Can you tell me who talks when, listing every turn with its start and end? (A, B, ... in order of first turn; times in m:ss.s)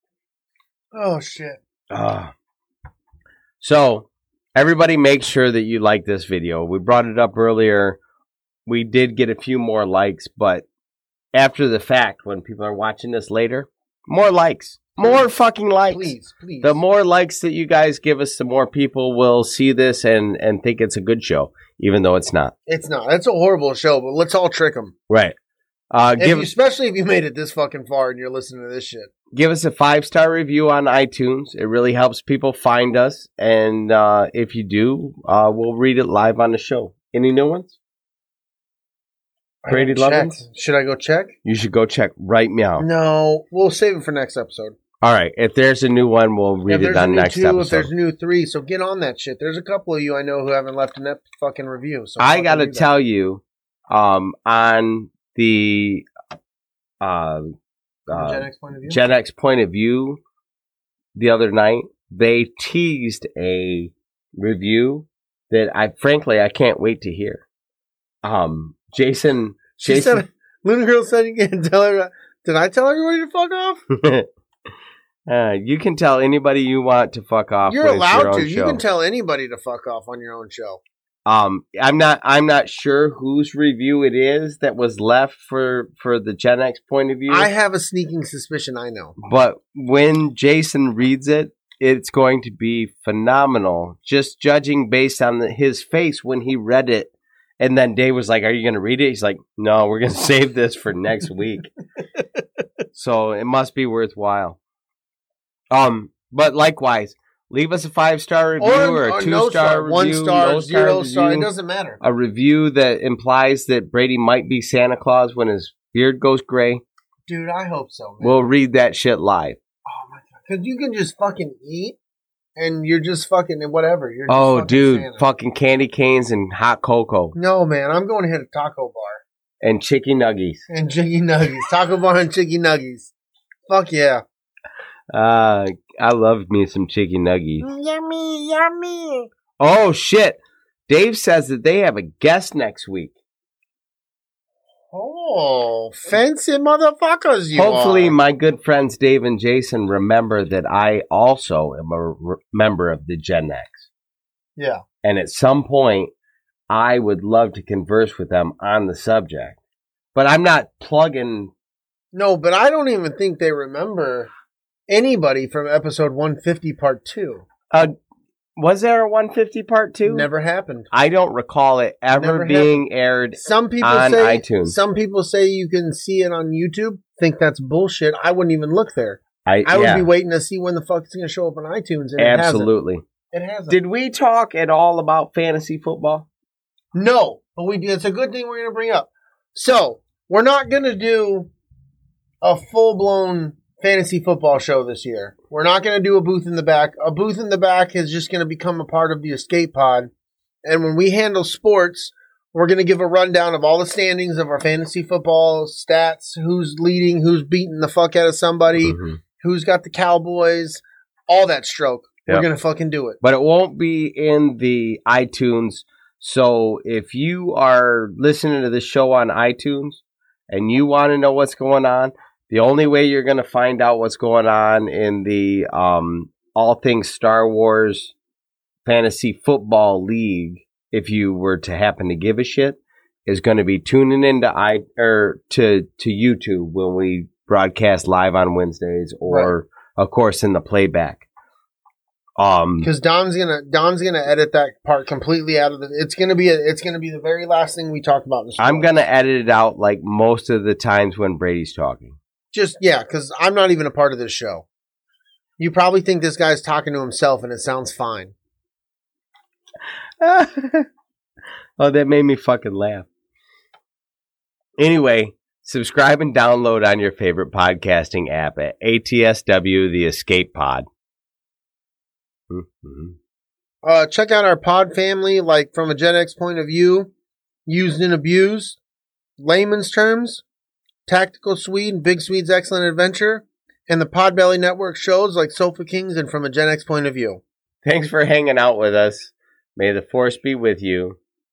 0:00.9-0:01.6 A
0:01.9-0:02.3 B
0:03.6-0:08.0 B
0:08.7-0:10.7 B
0:11.3-0:22.5 B
0:15.9-0:16.8 A
0:22.7-0:24.9 A
0:25.1-0:25.4 B
0:25.9-0:26.5 B
0:26.2-0:29.1 A
0:29.3-0:37.8 B
0:39.6-0:41.4 A
0:39.7-0:40.4 B
0:41.4-0:42.9 B
0:42.8-0:44.8 A
0:45.0-0:47.9 B
0:46.7-0:52.9 A
0:52.2-0:56.1 B
0:57.0-0:57.5 B
0:58.1-1:00.2 B
0:58.1-0:59.0 A
1:01.2-1:07.4 B
1:08.2-1:10.2 B
1:09.8-1:13.8 A
1:13.9-1:14.3 B
1:15.3-1:18.8 B
1:17.7-1:20.8 A
1:21.3-1:27.5 B
1:27.3-1:29.2 A
1:29.2-1:41.7 B
1:42.9-1:44.6 B
1:45.7-1:51.5 B
1:48.6-1:52.0 A
1:52.0-1:56.8 B
1:57.3-1:58.5 A
1:58.2-1:59.6 B
1:59.9-2:02.0 A
2:02.6-2:05.2 A
2:04.3-2:07.4 B
2:07.4-2:09.2 A
2:09.6-2:10.6 B
2:10.7-2:13.1 A
2:13.7-2:14.2 A
2:15.1-2:17.6 B
2:17.6-2:19.3 A
2:19.6-2:23.2 B
2:24.9-2:28.2 A
2:27.6-2:33.9 B
2:34.6-2:34.8 A
2:35.0-2:36.1 B
2:36.7-2:39.6 B
2:40.2-2:41.5 B
2:42.1-2:44.3 A
2:44.9-2:47.4 A
2:47.7-2:48.0 B
2:48.6-2:50.3 B
2:50.1-2:50.9 A
2:50.9-2:54.8 B
2:52.1-2:52.8 A
2:53.4-3:02.7 A
2:59.5-3:00.1 B
3:02.2-3:03.0 B
3:03.3-3:03.8 A
3:03.7-3:06.3 B
3:06.9-3:11.5 A
3:12.4-3:20.1 A
3:20.6-3:33.2 A
3:28.8-3:29.2 B
3:33.2-3:48.1 B
3:48.9-4:01.3 B
3:59.2-3:59.6 A
4:02.4-4:02.9 B
4:02.8-4:08.9 A
4:08.6-4:12.2 B
4:12.5-4:14.7 A
4:15.6-4:18.3 A
4:20.2-4:20.9 B
4:21.8-4:23.1 B
4:24.8-4:30.9 B
4:32.5-4:33.2 B
4:33.8-4:37.1 A
4:37.7-4:38.8 A
4:39.4-4:40.4 A
4:41.1-4:47.4 A
4:47.8-4:51.2 B